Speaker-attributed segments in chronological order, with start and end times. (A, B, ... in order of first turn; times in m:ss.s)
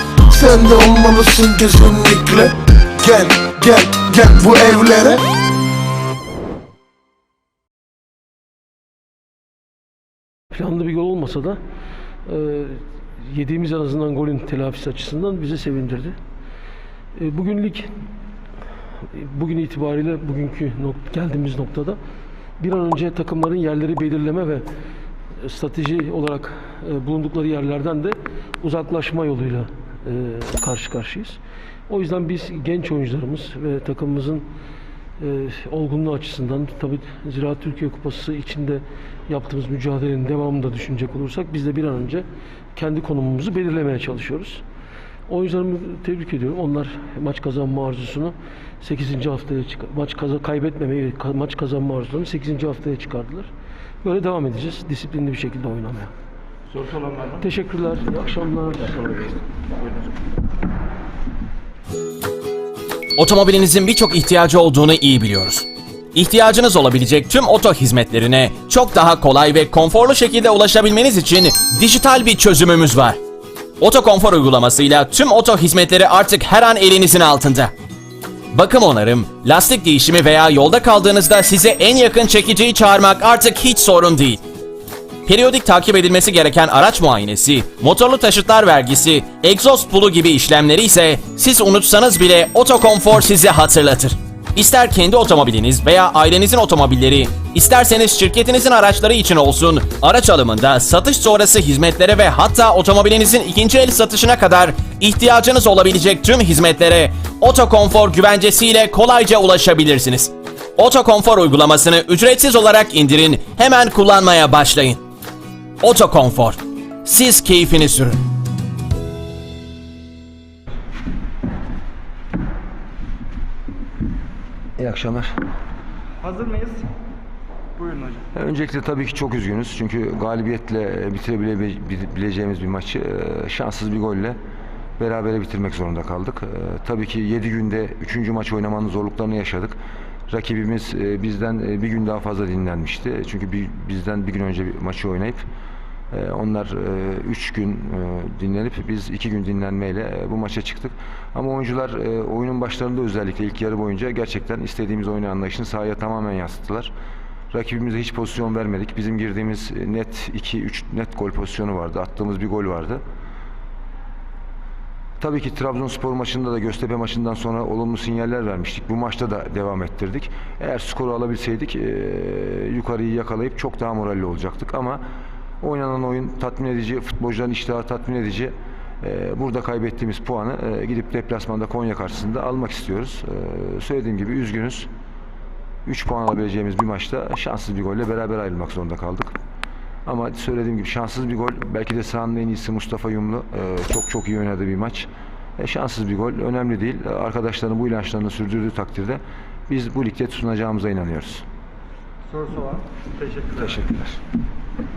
0:00.3-0:05.2 A
0:10.5-0:11.6 B
0:12.3-0:16.2 B
0:17.2-0:17.9 B
0:19.1-0:22.0 B
0:22.6-0:24.7 B
0:25.4-0:34.5 B
0:35.2-0:44.6 B
0:45.3-0:53.5 B
0:54.0-0:56.1 B
0:57.1-0:59.4 B
1:03.2-1:13.2 C
1:13.8-1:17.7 C
1:18.5-1:24.4 C
1:25.2-1:55.0 C
1:55.8-1:58.2 C
2:04.8-2:05.4 D
2:06.2-2:06.9 E
2:07.8-2:08.2 E
2:08.3-2:14.4 D
2:15.0-2:19.8 D
2:20.3-2:25.4 D
2:26.1-2:36.9 D
2:37.5-2:43.0 D
2:45.2-2:55.0 D
2:55.6-3:04.9 D
3:05.9-3:09.4 D
3:10.1-3:21.4 D
3:22.3-3:23.5 E
3:23.5-3:24.2 D